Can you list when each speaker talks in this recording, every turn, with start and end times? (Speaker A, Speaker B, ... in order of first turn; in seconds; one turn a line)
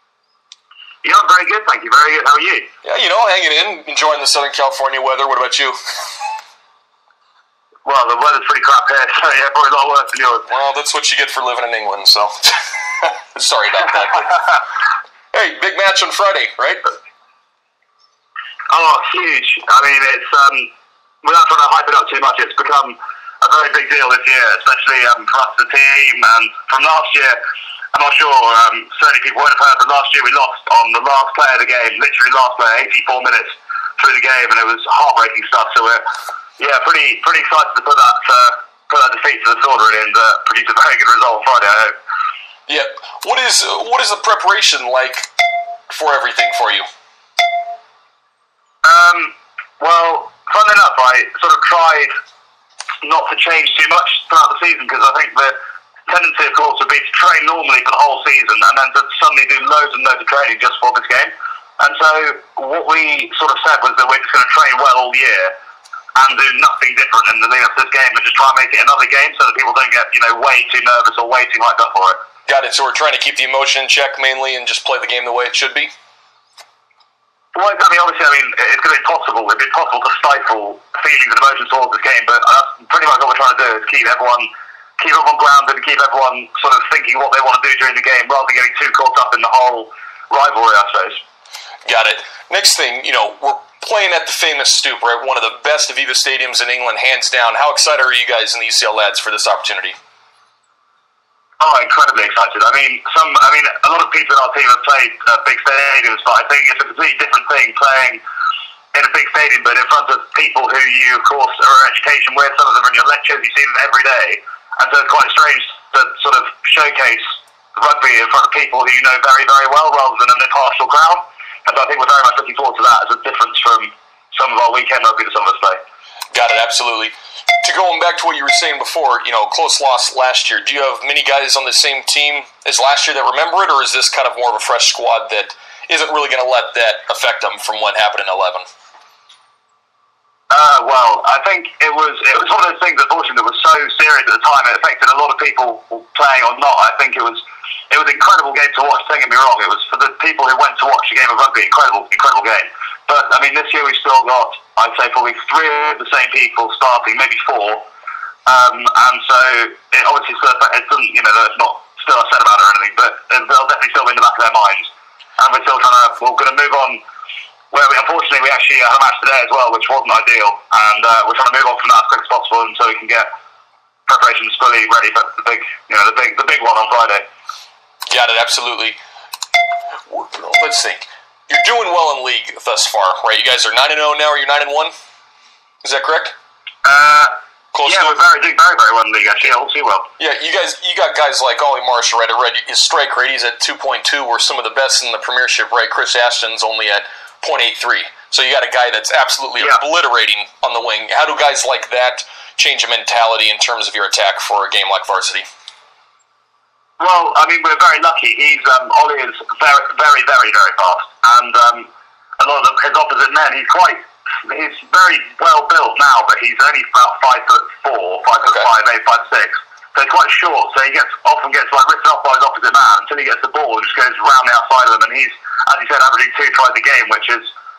Speaker A: 1.0-2.7
Speaker B: 2.8-5.8
Speaker A: 7.8-10.5
Speaker B: 10.5-14.6
Speaker B: 15.3-16.8
Speaker A: 18.7-20.7
Speaker A: 21.2-27.4
Speaker A: 27.9-36.0
Speaker A: 36.6-42.0
Speaker B: 42.7-45.3
Speaker B: 45.9-46.9
Speaker A: 48.8-52.1
Speaker A: 53.0-55.6
Speaker A: 56.1-65.5
Speaker A: 66.2-72.2
Speaker B: 72.5-75.9
Speaker A: 77.5-91.2
Speaker B: 91.9-100.0
Speaker A: 101.6-108.2
Speaker A: 108.9-125.8
Speaker B: 126.3-138.7
Speaker A: 140.5-157.8
Speaker A: 158.5-167.0
Speaker A: 167.7-173.3
Speaker A: 174.1-177.2
Speaker B: 178.1-179.0
Speaker B: 180.1-184.9
Speaker B: 185.8-186.3
Speaker A: 186.8-187.3
Speaker B: 187.7-188.2
Speaker A: 187.8-190.1
Speaker B: 190.2-205.5
Speaker A: 207.0-227.5